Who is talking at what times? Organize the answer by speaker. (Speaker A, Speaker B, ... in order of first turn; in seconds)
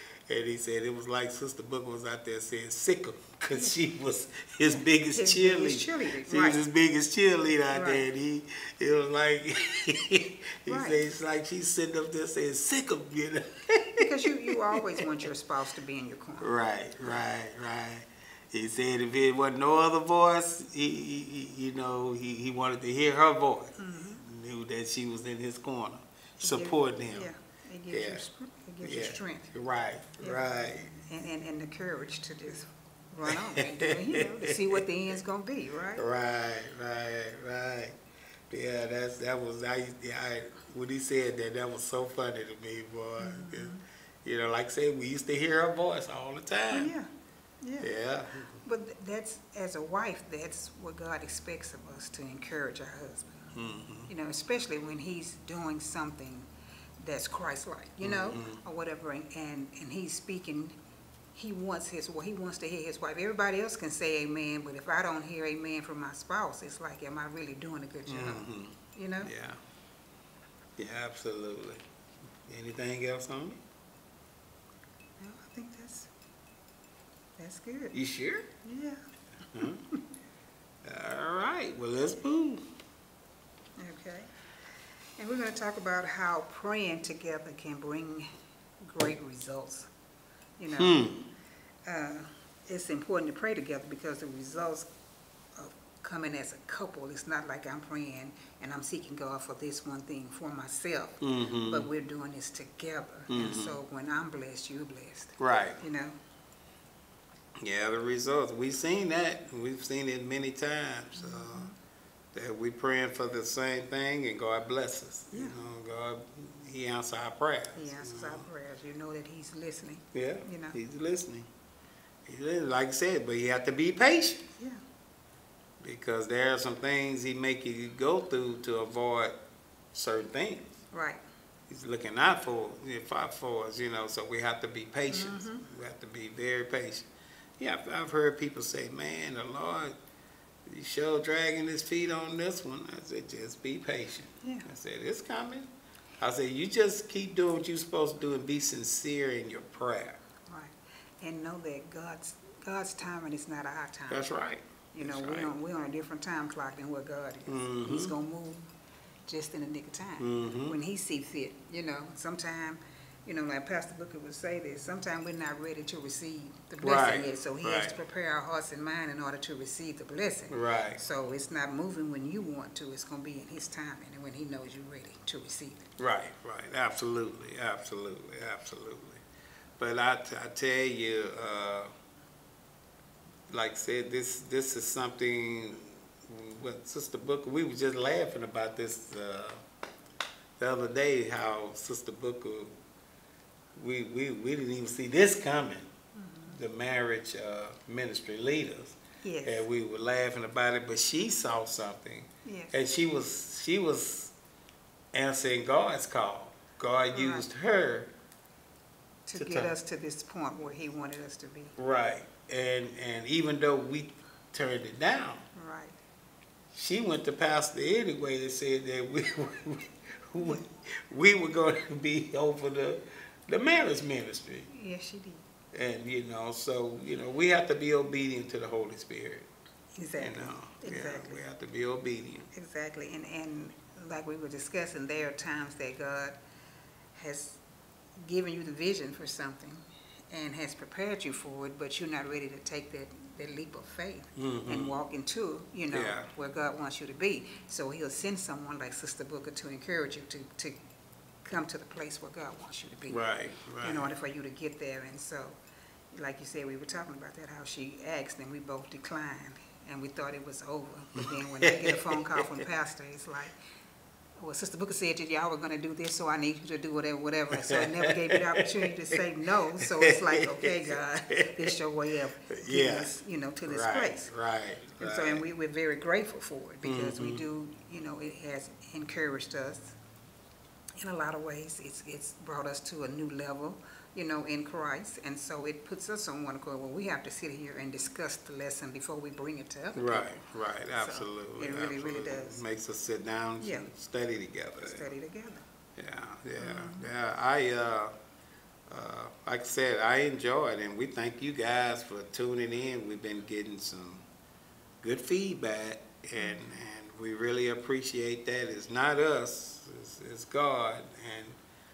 Speaker A: 0.3-15.0, 16.4-27.3, 27.9-28.2, 28.8-30.9, 33.3-34.8, 36.0-38.0, 38.5-46.9, 47.8-48.6, 53.5-54.1, 58.0-58.6, 68.1-69.6, 70.8-71.8, 72.5-73.6, 77.9-78.5, 79.5-79.8, 80.8-82.7, 90.8-91.3, 101.2-101.9, 103.3-103.8, 105.4-105.8, 107.6-111.7, 112.3-118.4, 120.1-121.5, 122.3-124.5, 125.8-129.4, 129.9-130.7, 131.7-137.1, 137.6-139.9, 140.7-150.2, 154.1-155.5, 157.5-158.1, 160.2-160.8, 166.8-168.0, 170.5-171.0, 176.0-179.2, 179.8-181.9, 183.5-189.6, 190.6-192.7, 193.8-195.9, 196.5-204.3, 205.1-208.1, 209.4-209.7, 211.8-215.4, 216.7-224.7, 225.7-229.5, 230.2-232.5, 244.4-245.0, 245.9-246.3, 253.1-254.1, 261.2-262.2, 267.6-269.2, 269.8-271.8, 272.5-273.1, 273.7-275.4, 276.8-277.4, 289.9-295.1, 296.0-298.1, 298.9-304.2, 305.0-311.6
Speaker B: 5.1-6.6, 7.7-8.0, 10.7-11.0, 14.0-16.5, 23.8-24.2, 26.4-29.5, 30.2-36.0, 43.2-43.8, 46.7-47.1, 47.6-47.9, 48.6-53.5, 54.1-56.5, 57.0-60.8, 61.4-69.3, 75.2-76.1, 77.4-78.0, 78.6-79.0, 79.6-80.0, 83.8-84.3, 85.2-88.3, 88.8-89.9, 90.6-91.0, 91.8-94.9, 95.5-106.2, 111.2-111.7, 117.8-120.8, 130.9-131.2, 135.1-135.7, 144.4-144.7, 150.5-154.3, 154.9-158.7, 159.3-175.9, 196.2-196.6, 199.2-199.7, 202.4-202.7, 207.1-207.5, 209.3-211.8, 215.6-216.0, 224.7-225.4, 229.9-231.4, 232.5-236.4, 237.1-237.6, 238.2-250.8, 251.4-253.2, 253.8-255.6, 256.1-263.6, 264.4-274.3, 275.0-279.9, 281.0-290.3, 291.0-292.6, 293.6-293.9, 294.8-295.6, 296.6-297.1, 306.4-306.8